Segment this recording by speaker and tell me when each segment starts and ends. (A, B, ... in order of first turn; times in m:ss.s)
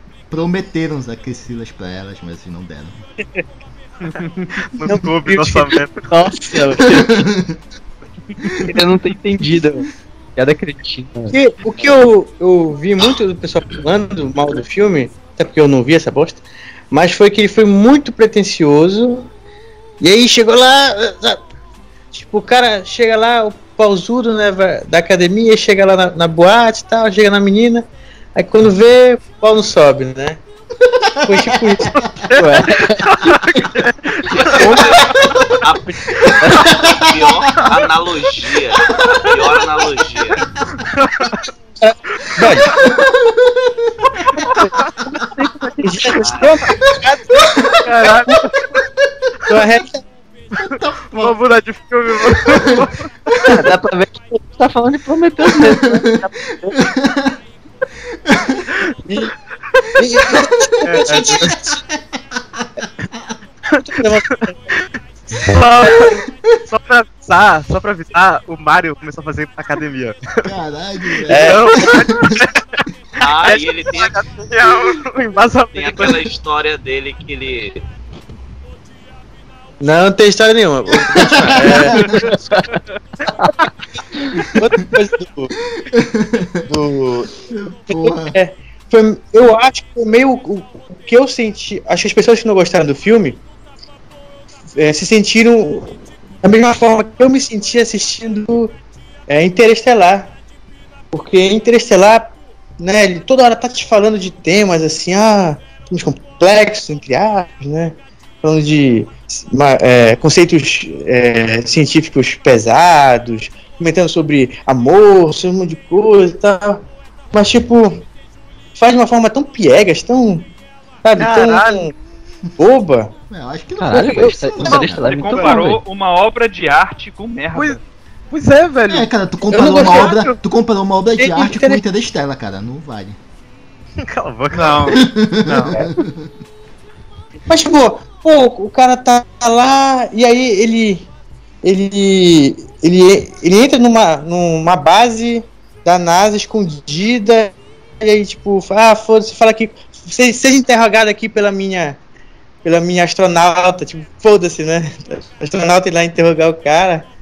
0:00.3-0:03.0 A
0:04.1-0:04.4 B
0:04.8-0:06.1 C
0:04.8-0:05.8 D
0:06.1-0:07.2 E
0:06.9-0:07.6 A
0:08.6-0:11.4 E
0:11.3-0:19.3 D
0:20.0-0:21.4 D
0:22.1-0:30.4 D
0:31.2-0:32.2 A
0:31.2-0:32.0 D
0:32.1-0:34.8 C
0:32.3-0:33.7 E
0:34.3-0:35.0 E
0:34.4-0:40.4 F
0:36.4-0:36.7 E
0:36.7-0:37.3 A
0:40.8-0:41.4 C
0:41.8-0:42.9 D
0:42.8-0:43.9 A
0:45.1-0:46.4 E
0:45.8-0:47.6 D
0:47.8-0:48.8 C
0:49.5-0:50.0 D
0:50.6-0:51.4 A
0:51.1-0:53.6 C
0:52.2-0:53.4 A
0:53.4-0:56.9 E
0:55.4-0:56.0 A
0:56.8-0:57.4 A
0:58.2-0:58.7 A
0:59.1-0:59.3 D
1:00.0-1:01.8 D
1:00.2-1:00.5 A
1:00.8-1:01.6 C
1:02.6-1:03.3 A
1:03.8-1:04.7 D
1:05.3-1:10.5 C
1:10.4-1:12.4 A
1:11.3-1:12.0 D
1:11.3-1:16.3 C
1:13.2-1:14.2 F
1:15.7-1:17.8 F
1:19.8-1:22.2 D
1:20.9-1:22.1 A
1:21.9-1:22.8 B
1:22.2-1:22.6 E
1:24.5-1:25.5 D
1:25.8-1:26.6 A
1:26.7-1:27.3 D
1:27.5-1:28.4 A
1:27.9-1:33.4 D
1:34.8-1:38.8 D
1:39.3-1:40.3 D
1:41.1-1:58.0 D
1:58.8-2:00.5 D
2:01.0-2:01.9 D
2:01.2-2:01.9 C
2:02.6-2:03.1 D
2:03.3-2:05.1 A
2:03.8-2:05.8 E
2:04.1-2:05.7 C
2:05.0-2:07.8 B
2:07.5-2:07.8 C
2:08.3-2:10.4 C
2:08.9-2:13.2 A
2:09.5-2:10.2 D
2:11.2-2:11.8 D
2:14.0-2:15.0 C
2:14.5-2:15.8 B
2:14.9-2:16.3 A
2:15.6-2:15.8 C
2:17.5-2:21.1 D
2:21.6-2:32.0 D
2:32.6-2:37.1 D